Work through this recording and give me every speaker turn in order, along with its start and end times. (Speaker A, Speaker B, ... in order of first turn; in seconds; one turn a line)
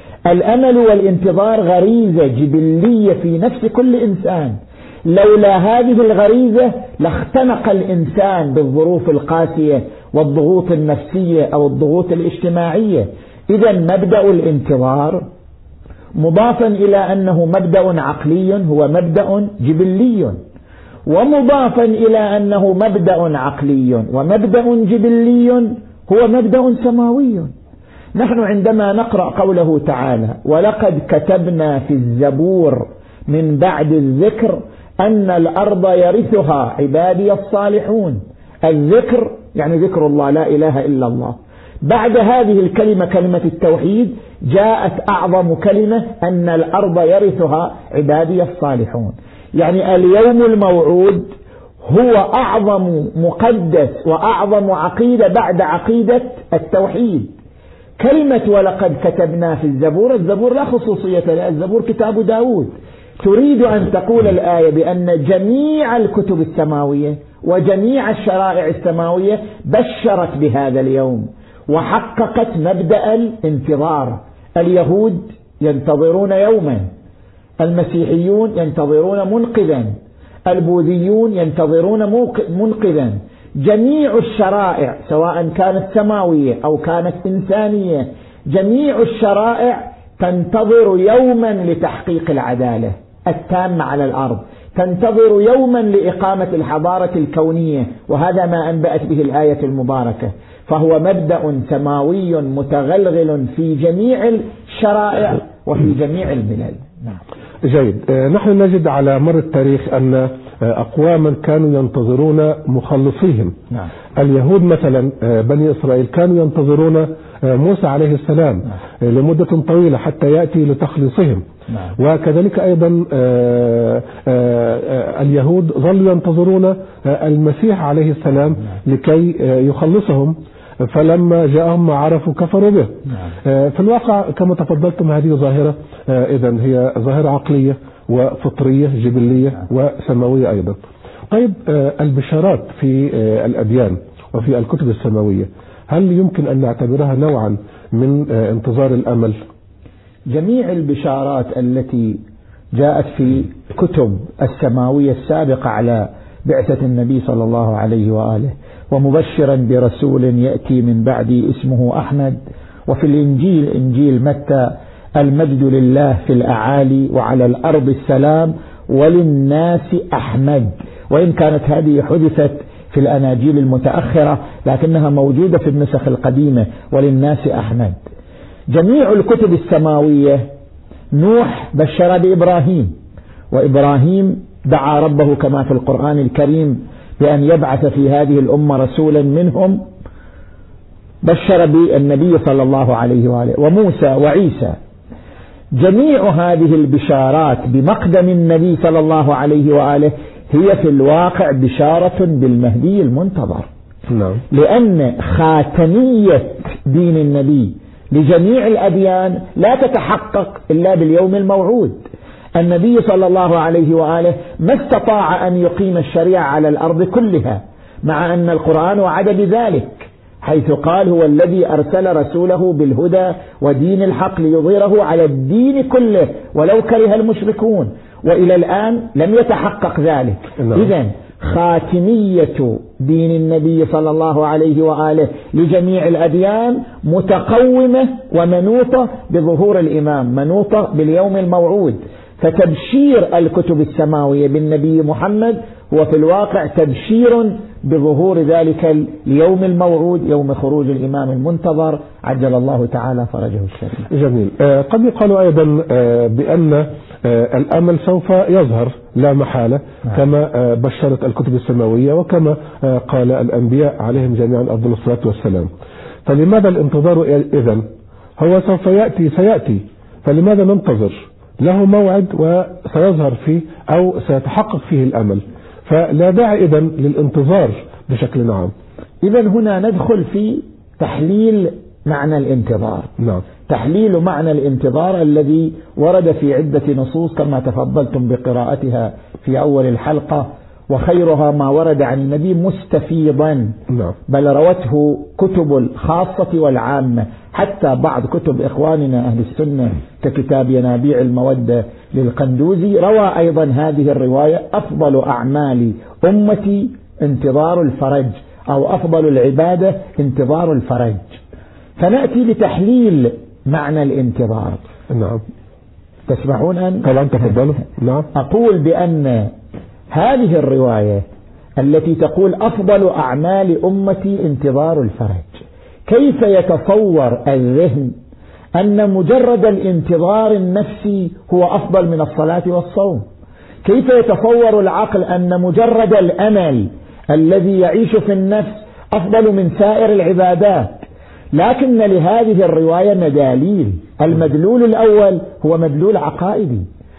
Speaker A: 0.3-15.2
Speaker A: 16.2-20.4
Speaker A: 21.1-27.5
Speaker A: 28.1-51.3
Speaker A: 51.9-57.3
Speaker A: 58.0-76.9
Speaker A: 77.6-79.9
Speaker A: 80.5-107.2
Speaker B: 107.6-113.6
Speaker B: 114.2-121.4
Speaker B: 122.0-149.4
Speaker A: 150.3-152.2
Speaker A: 152.7-177.9
Speaker A: 178.7-180.5
Speaker A: 181.1-182.9
Speaker A: 183.5-189.8
Speaker A: 191.2-194.8
Speaker A: 195.8-203.7
Speaker B: 204.1-204.4
Speaker A: 204.5-254.1
Speaker B: 230.6-230.9
Speaker B: 254.1-265.7
Speaker B: 266.3-267.9
Speaker B: 268.4-278.7
Speaker A: 279.2-283.1
Speaker B: 283.2-283.4
Speaker A: 283.7-293.8
Speaker B: 293.9-294.1
Speaker A: 294.3-311.4
Speaker A: 312.0-314.8
Speaker B: 315.1-315.4
Speaker A: 316.3-317.5
Speaker B: 317.0-318.3
Speaker A: 318.3-319.5
Speaker A: 320.1-321.2
Speaker A: 321.8-328.1
Speaker A: 328.8-333.2
Speaker A: 333.8-346.9